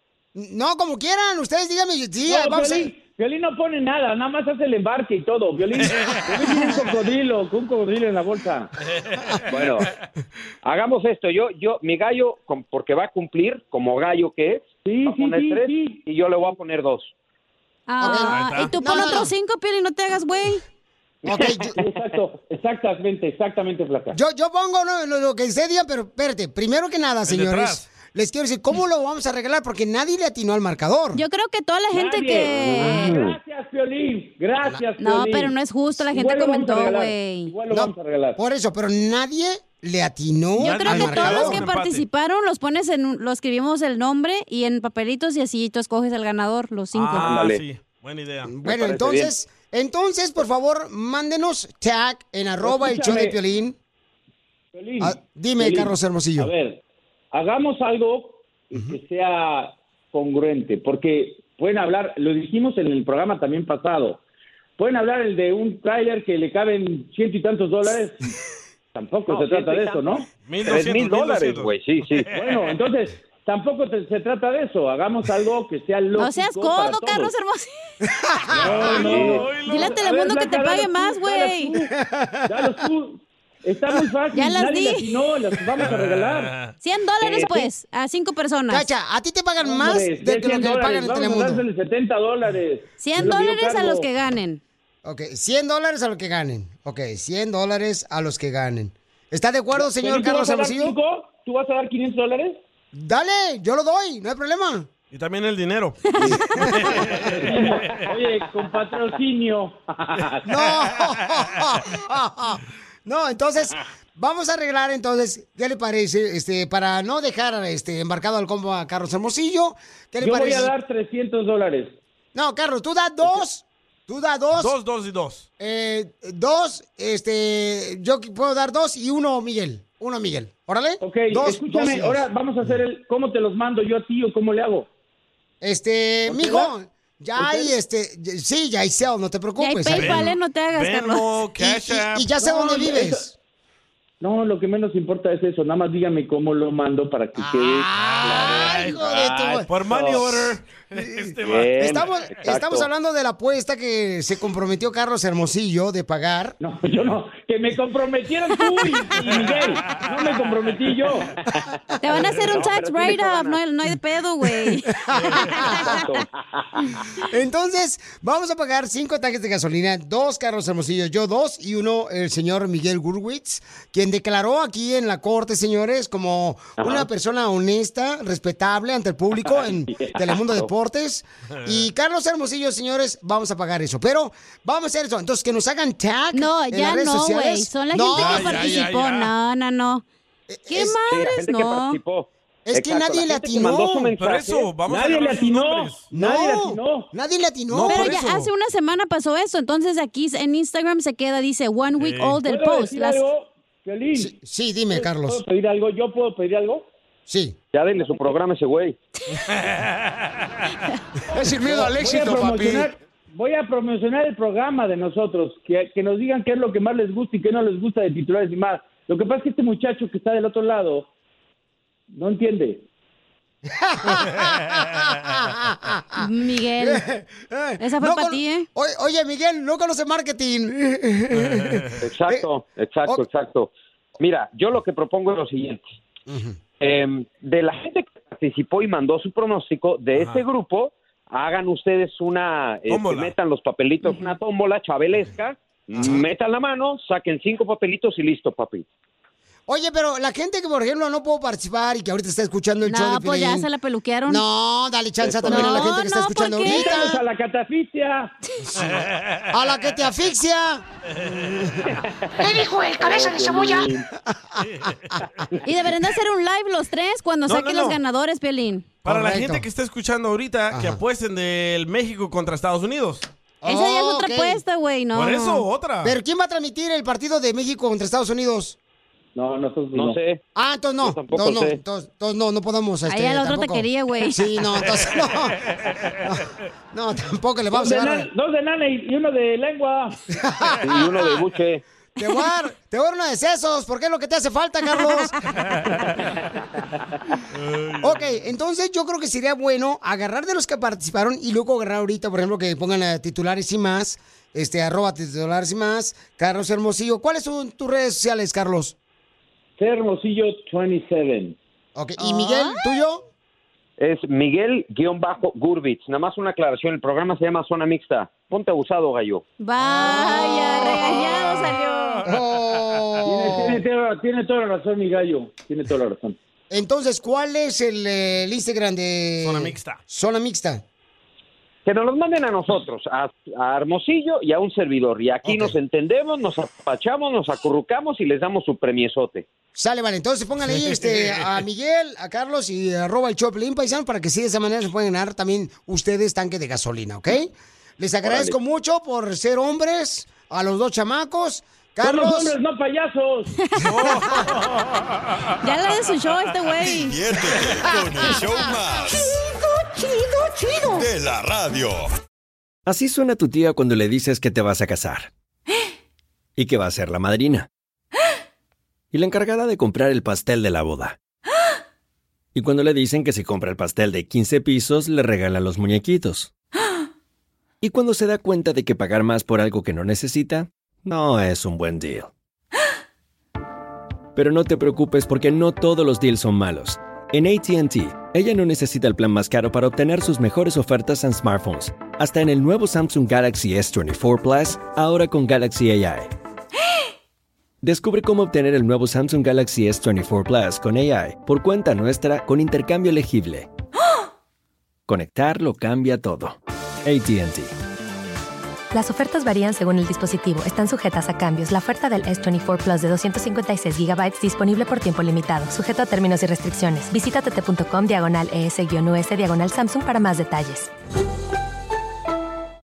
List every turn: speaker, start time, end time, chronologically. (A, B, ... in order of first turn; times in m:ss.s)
0:00.3-0:02.9 A
0:02.2-0:08.7 B
0:05.8-0:06.2 C
0:09.0-0:09.6 C
0:09.5-0:09.8 D
0:10.6-0:17.1 D
0:14.8-0:16.0 B
0:17.9-0:20.6 E
0:18.0-0:19.3 A
0:18.1-0:19.2 C
0:21.3-0:21.8 A
0:21.8-0:24.2 B
0:24.1-0:31.2 A
0:27.2-0:27.8 C
0:31.1-0:33.2 E
0:31.9-0:35.5 B
0:33.0-0:33.3 D
0:35.0-0:37.5 E
0:36.1-0:38.4 B
0:37.7-0:41.6 A
0:40.6-0:47.3 E
0:40.6-0:42.0 C
0:46.9-0:48.5 C
0:47.2-0:47.6 D
0:48.4-0:53.8 A
0:48.6-0:49.3 D
0:52.6-0:53.4 B
0:54.7-0:56.8 B
0:55.0-0:56.5 A
0:57.3-1:04.2 B
1:04.8-1:08.3 B
1:08.9-1:10.3 B
1:09.3-1:10.0 D
1:10.5-1:12.8 C
1:10.6-1:12.3 D
1:12.3-1:17.3 B
1:16.2-1:17.7 E
1:18.1-1:19.1 A
1:18.5-1:20.0 C
1:18.6-1:21.9 B
1:19.1-1:19.4 D
1:19.6-1:21.7 E
1:22.0-1:22.8 A
1:22.5-1:26.5 B
1:24.3-1:25.1 E
1:25.8-1:26.7 C
1:26.8-1:28.8 E
1:27.2-1:27.7 B
1:28.7-1:31.6 A
1:29.6-1:34.1 B
1:33.0-1:34.6 E
1:35.0-1:41.0 A
1:39.7-1:42.6 B
1:42.9-1:44.9 A
1:45.1-1:48.0 C
1:46.2-1:47.1 A
1:47.3-1:50.5 B
1:50.5-2:00.7 A
2:00.2-2:02.0 B
2:02.3-2:04.7 A
2:04.6-2:05.5 C
2:05.6-2:12.2 A
2:11.0-2:14.9 B
2:15.6-2:20.3 A
2:16.3-2:16.7 B
2:17.4-2:17.7 B
2:19.6-2:21.2 E
2:19.9-2:22.3 C
2:21.6-2:23.3 A
2:22.4-2:23.2 B
2:24.2-2:28.6 B
2:27.4-2:29.7 A
2:28.0-2:32.3 C
2:31.0-2:36.6 A
2:31.4-2:32.9 D
2:36.6-2:41.3 B
2:39.2-2:40.7 C
2:42.0-2:44.9 E
2:42.5-2:43.6 D
2:44.9-2:46.0 A
2:45.1-2:45.5 C
2:47.3-3:08.8 A
3:01.6-3:01.9 C
3:06.3-3:10.0 E
3:08.1-3:09.3 C
3:10.5-3:11.0 A
3:10.7-3:12.0 E
3:11.1-3:14.6 D
3:12.7-3:14.1 A
3:14.2-3:16.0 C
3:14.8-3:17.1 B
3:16.1-3:18.5 A
3:17.7-3:18.1 C
3:17.9-3:23.2 E
3:22.0-3:22.4 C
3:22.4-3:24.3 B
3:24.2-3:25.4 A
3:24.9-3:26.9 B
3:27.3-3:27.6 A
3:27.7-3:29.0 D
3:29.4-3:30.4 C
3:31.4-3:41.1 B
3:31.6-3:32.1 A
3:42.1-3:42.8 B
3:43.7-3:52.4 A
3:46.2-3:47.0 E
3:47.8-3:48.7 E
3:51.3-3:52.0 C
3:52.0-3:55.8 D
3:56.3-3:56.6 A
3:56.8-4:08.8 D
4:00.2-4:00.4 C
4:02.9-4:03.3 C
4:06.0-4:06.2 A
4:09.7-4:13.7 A
4:12.8-4:14.4 E
4:14.3-4:17.2 A
4:15.3-4:15.6 B
4:15.5-4:17.1 E
4:16.6-4:18.3 B
4:18.7-4:19.0 A
4:18.8-4:19.5 C
4:19.5-4:20.8 A
4:21.1-4:21.6 C
4:23.0-4:24.0 B
4:24.3-4:24.7 A
4:25.6-4:28.9 E
4:27.5-4:28.0 C
4:29.0-4:33.2 C
4:29.0-4:29.6 A
4:30.7-4:31.0 A
4:33.6-4:34.6 A
4:33.6-4:35.6 E
4:35.1-4:36.1 C
4:36.0-4:38.8 A
4:39.4-4:40.2 B
4:39.9-4:40.4 D
4:40.6-4:45.7 A
4:41.0-4:41.8 D
4:43.1-4:44.4 E
4:44.8-4:45.1 C
4:45.7-4:46.1 C
4:46.2-4:48.3 A
4:47.7-4:50.2 B
4:50.3-4:51.4 A
4:50.8-4:51.8 D
4:52.2-4:55.4 A
4:57.5-4:58.3 C
4:58.0-5:08.9 A
5:09.8-5:11.6 B
5:12.0-5:13.2 A
5:12.2-5:12.8 E
5:14.0-5:19.4 D
5:19.6-5:22.2 E
5:20.0-5:20.2 C
5:20.7-5:22.8 C
5:22.2-5:23.8 A
5:23.3-5:26.4 B
5:26.7-5:30.8 A
5:29.4-5:30.0 C
5:31.8-5:39.5 D
5:35.4-5:35.8 A
5:39.7-5:52.6 A
5:40.6-5:41.6 C
5:48.2-5:48.5 D
5:52.0-5:53.6 B
5:53.8-5:55.4 C
5:55.6-5:57.2 E
5:56.8-5:59.4 F
6:00.9-6:02.1 F
6:02.8-6:05.3 G
6:06.6-6:07.7 G
6:09.1-6:11.2 G
6:12.5-6:16.5 G
6:17.8-6:22.3 G
6:24.3-6:36.3 G
6:37.8-6:43.7 G
6:45.1-6:47.7 G
6:48.9-7:00.9 H